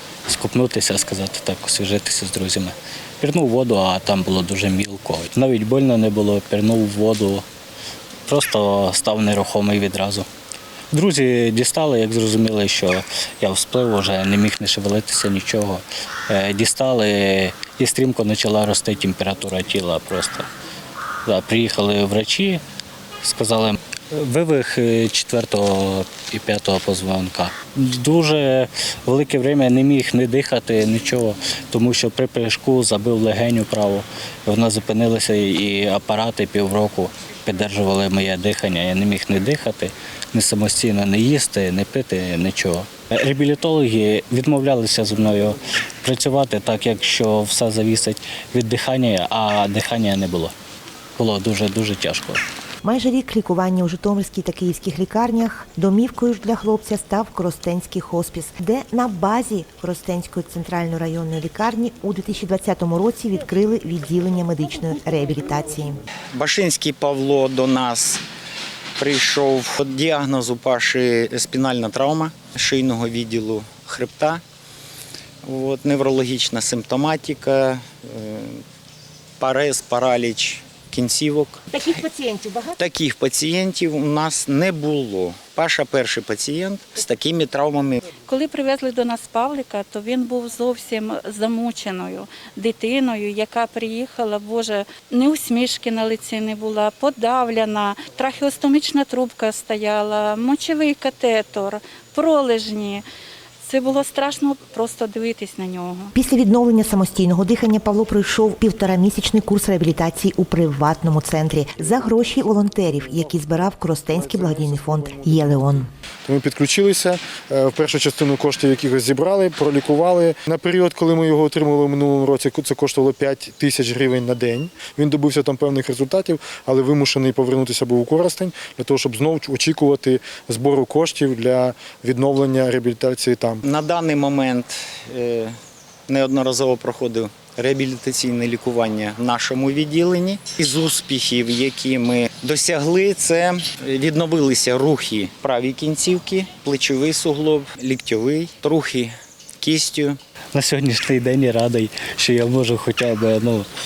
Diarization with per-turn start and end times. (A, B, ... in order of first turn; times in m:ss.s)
0:00.3-0:07.4 A
0:08.3-0:10.3 A
0:10.9-0:20.5 A
0:21.2-0:22.6 A
0:23.2-0:50.5 A
0:51.2-0:52.4 A
0:52.8-1:06.0 B
1:06.3-1:08.2 C
1:09.0-1:14.4 C
1:15.4-1:18.6 C
1:19.4-1:21.6 C
1:21.8-1:22.7 B
1:22.8-1:28.0 C
1:28.2-1:43.0 D
1:43.6-1:46.1 D
1:46.2-1:55.9 B
1:51.8-2:13.6 E
2:13.6-2:15.5 C
2:16.1-2:30.2 C
2:30.5-2:33.7 A